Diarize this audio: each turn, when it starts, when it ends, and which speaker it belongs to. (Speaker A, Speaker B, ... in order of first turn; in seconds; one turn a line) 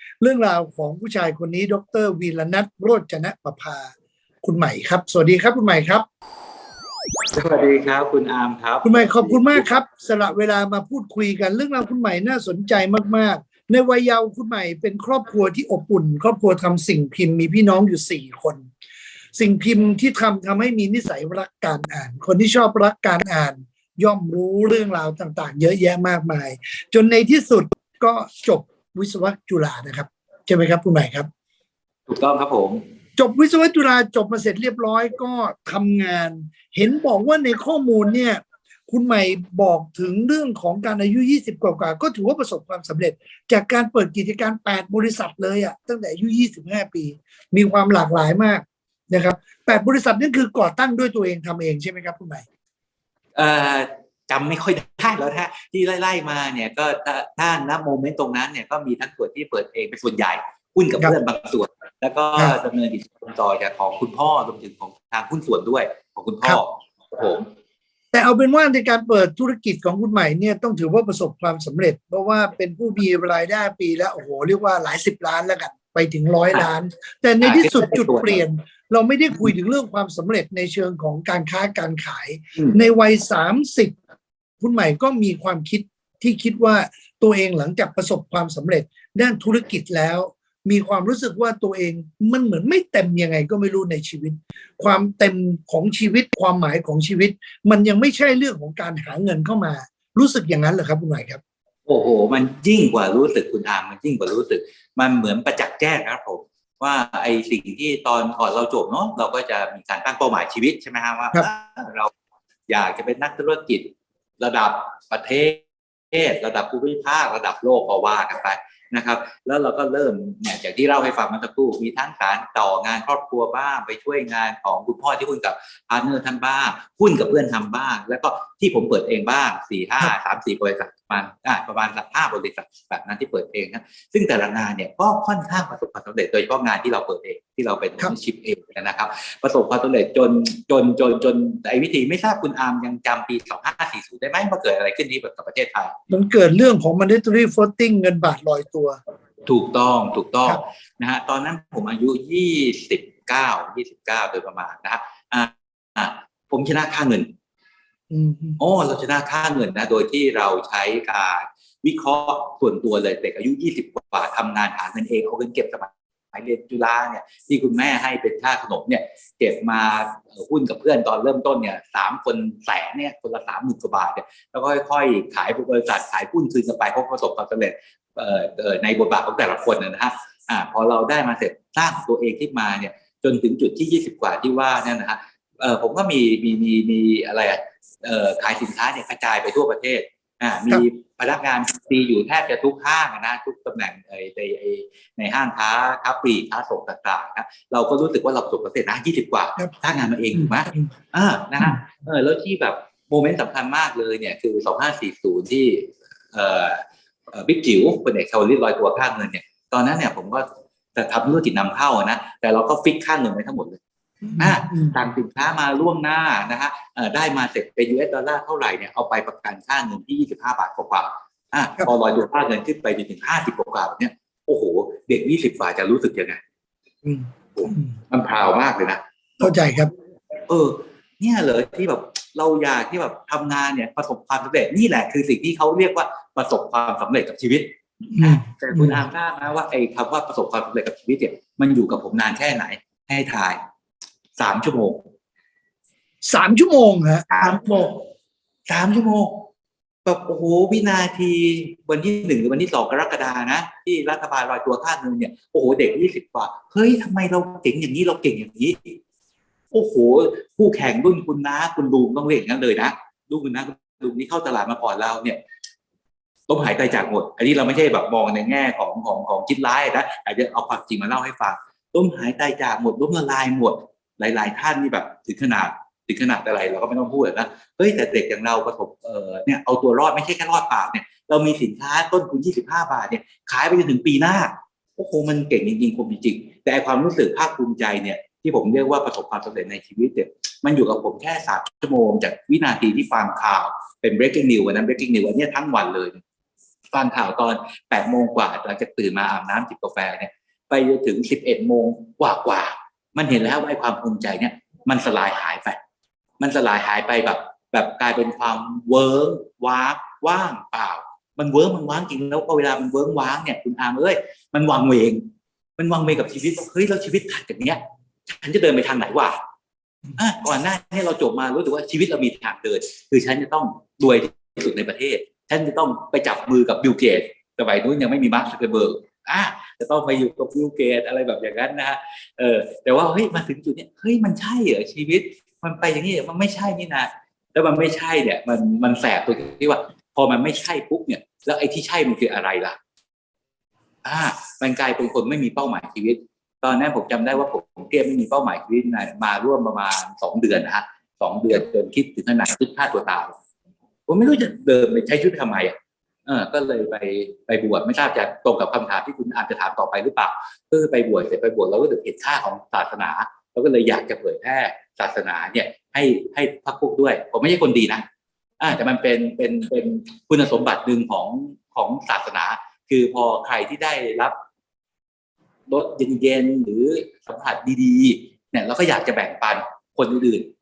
Speaker A: 0.2-6.0
Speaker B: 7.3-9.7
Speaker A: 8.8-18.7
Speaker A: 19.3-31.3
Speaker B: 32.1-32.8
Speaker A: 33.2-52.5
Speaker B: 53.4-67.5
Speaker A: 68.1-83.9
Speaker B: 77.4-78.4
Speaker A: 84.6-101.4
Speaker B: 101.9-112.1
Speaker B: 112.7-145.9
Speaker A: 146.1-149.0
Speaker B: 149.4-157.3
Speaker A: 158.1-158.6
Speaker B: 158.6-213.8
Speaker A: 214.2-214.9
Speaker B: 214.4-226.4
Speaker A: 227.0-227.9
Speaker B: 227.5-229.5
Speaker A: 229.4-229.9
Speaker B: 230.5-243.6
Speaker A: 238.1-239.0
Speaker B: 244.4-245.1
Speaker A: 246.2-247.9
Speaker B: 247.3-248.0
Speaker B: 248.7-249.5
Speaker B: 250.0-259.0
Speaker B: 259.7-265.4
Speaker B: 266.5-296.2
Speaker B: 296.9-305.8
Speaker B: 306.4-319.4
Speaker B: 320.1-342.8
Speaker B: 344.0-353.3
Speaker B: 354.1-355.7
Speaker B: 356.2-368.0
Speaker B: 368.6-374.3
Speaker B: 375.7-380.5